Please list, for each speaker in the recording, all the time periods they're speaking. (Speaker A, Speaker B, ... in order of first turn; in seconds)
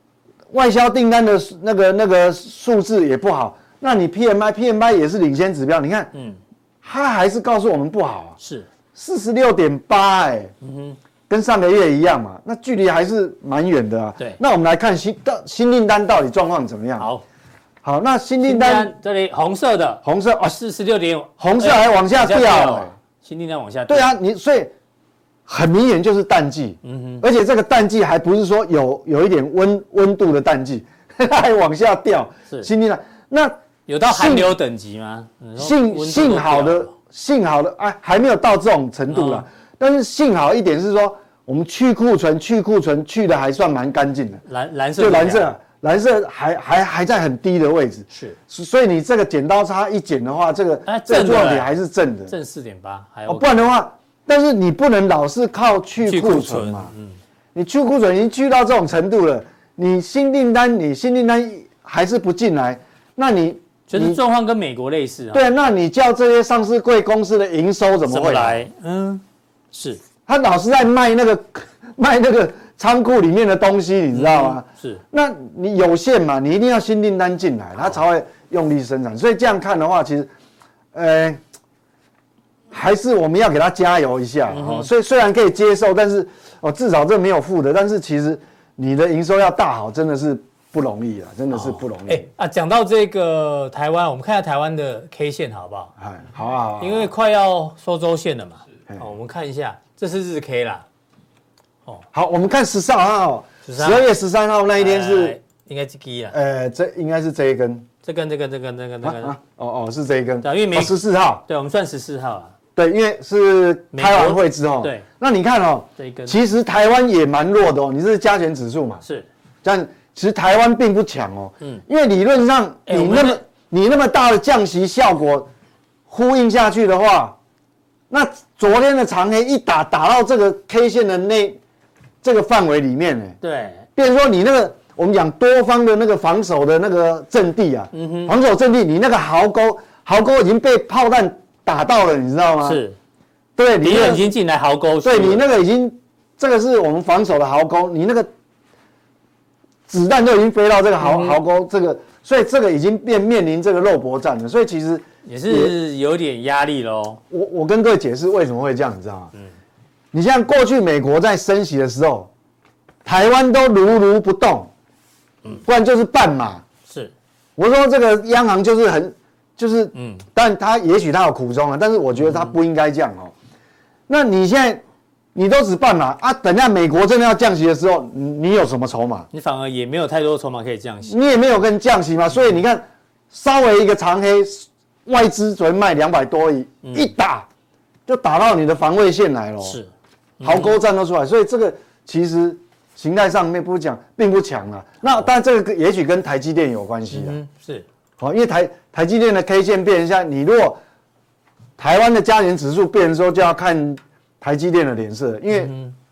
Speaker A: 0.5-6.1, 6.8-8.4, 8.9-10.5, 11.3-17.1, 17.8-18.9, 20.0-20.6, 21.4-22.9, 23.9-24.7, 25.5-34.6, 35.6-44.4, 45.0-52.3, 53.3-56.9, 57.5-64.2, 65.3-68.7, 70.3-80.3, 80.9-81.4, 82.7-92.3, 96.0-97.1, 102.1-105.4, 106.3-107.9, 109.0-111.4, 112.8-119.0, 119.6-125.5, 126.1-127.4, 128.1-131.6, 132.2-133.4, 134.0-142.8, 143.6-144.3, 145.0-148.3, 149.9-155.7, 157.3-159.3, 160.1-162.3, 163.1-164.7, 165.6-166.6, 167.6-173.3, 174.1-174.8, 175.3-179.3, 181.1-187.5, 188.1-189.8, 190.4-197.4, 198.2-200.8, 201.8-205.7
Speaker B: 6.1-6.4, 8.4-8.7, 10.6-11.0, 17.0-17.2, 18.4-24.1, 26.8-27.2, 33.9-36.9, 39.1-39.5, 44.5-45.5, 48.1-48.4, 50.9-51.7, 52.3-53.7, 56.1-57.2, 63.9-65.5, 68.1-70.0, 74.1-75.0, 84.5-84.9, 91.5-95.9, 96.8-100.8, 103.7-104.1, 104.8-106.3, 108.0-109.4, 110.4-112.5, 113.9-115.1, 116.0-116.4, 119.0-119.3, 122.9-123.4, 133.4-133.9, 137.9-138.3, 142.6-143.0, 143.8-145.5, 151.0-151.4, 155.2-157.2, 166.9-167.1, 169.9-170.2, 179.3-181.2, 186.8-187.1, 189.6-190.8, 197.1-197.9, 205.5-205.9